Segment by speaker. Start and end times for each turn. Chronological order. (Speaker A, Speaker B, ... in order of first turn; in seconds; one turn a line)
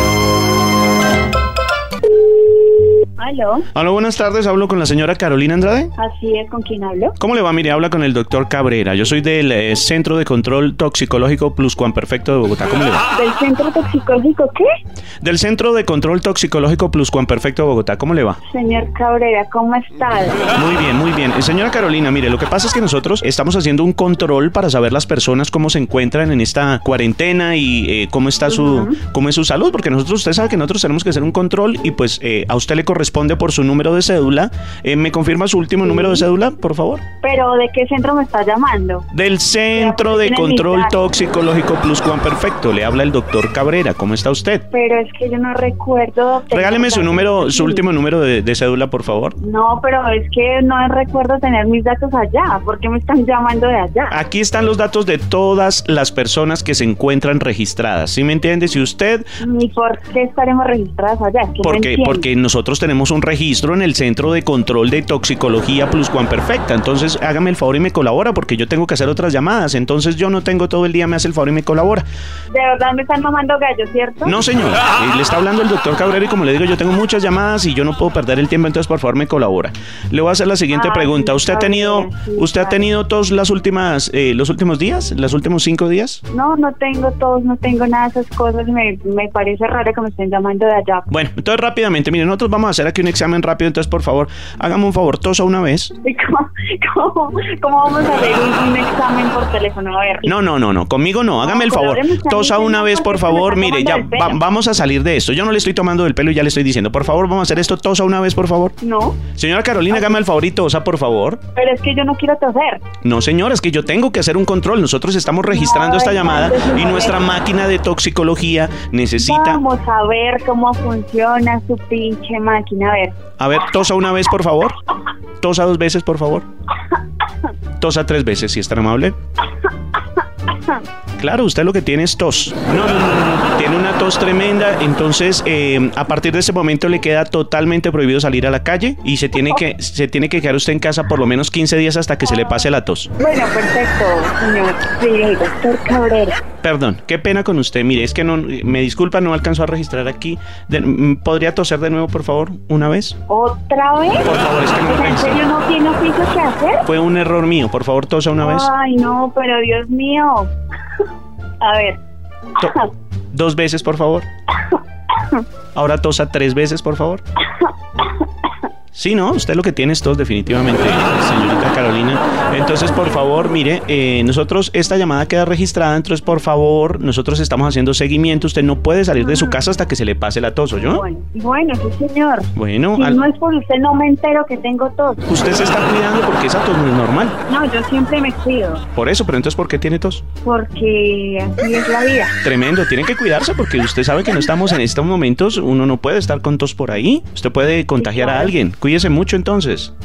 Speaker A: 3.2-3.7
Speaker B: 3.7-5.9
Speaker A: 6.0-7.2
Speaker B: 7.2-13.0
Speaker A: 13.1-14.7
Speaker B: 15.2-18.4
Speaker A: 18.5-20.4
Speaker B: 20.5-37.0
Speaker A: 28.5-29.0
Speaker A: 35.9-36.2
Speaker A: 37.2-39.1
Speaker B: 39.1-44.6
Speaker A: 39.7-41.0
Speaker A: 44.7-47.8
Speaker B: 46.5-49.4
Speaker A: 49.4-54.2
Speaker B: 54.1-59.3
Speaker A: 59.4-62.3
Speaker B: 61.6-72.0
Speaker A: 72.5-74.4
Speaker B: 74.2-86.2
Speaker A: 80.7-82.9
Speaker A: 86.3-91.1
Speaker B: 91.1-95.9
Speaker A: 96.0-100.3
Speaker B: 100.2-108.8
Speaker A: 101.4-104.4
Speaker A: 108.8-109.2
Speaker B: 109.3-111.4
Speaker A: 111.5-112.8
Speaker B: 113.0-119.6
Speaker A: 115.5-117.3
Speaker A: 119.2-123.2
Speaker B: 123.4-124.8
Speaker B: 125.4-126.5
Speaker B: 127.8-129.2
Speaker B: 131.2-143.1
Speaker A: 142.3-142.6
Speaker A: 143.2-146.4
Speaker B: 146.6-153.2
Speaker A: 153.3-154.3
Speaker B: 154.2-155.4
Speaker A: 154.8-156.8
Speaker B: 156.8-158.7
Speaker A: 158.4-160.5
Speaker A: 161.6-162.0
Speaker A: 162.6-162.9
Speaker B: 163.3-164.3
Speaker B: 165.8-167.2
Speaker B: 168.9-181.0
Speaker A: 172.0-173.6
Speaker A: 179.2-179.6
Speaker A: 180.9-185.3
Speaker B: 182.6-183.2
Speaker B: 185.3-187.4
Speaker A: 187.5-188.8
Speaker B: 188.9-190.2
Speaker A: 190.4-192.4
Speaker B: 192.4-199.9
Speaker A: 198.0-198.6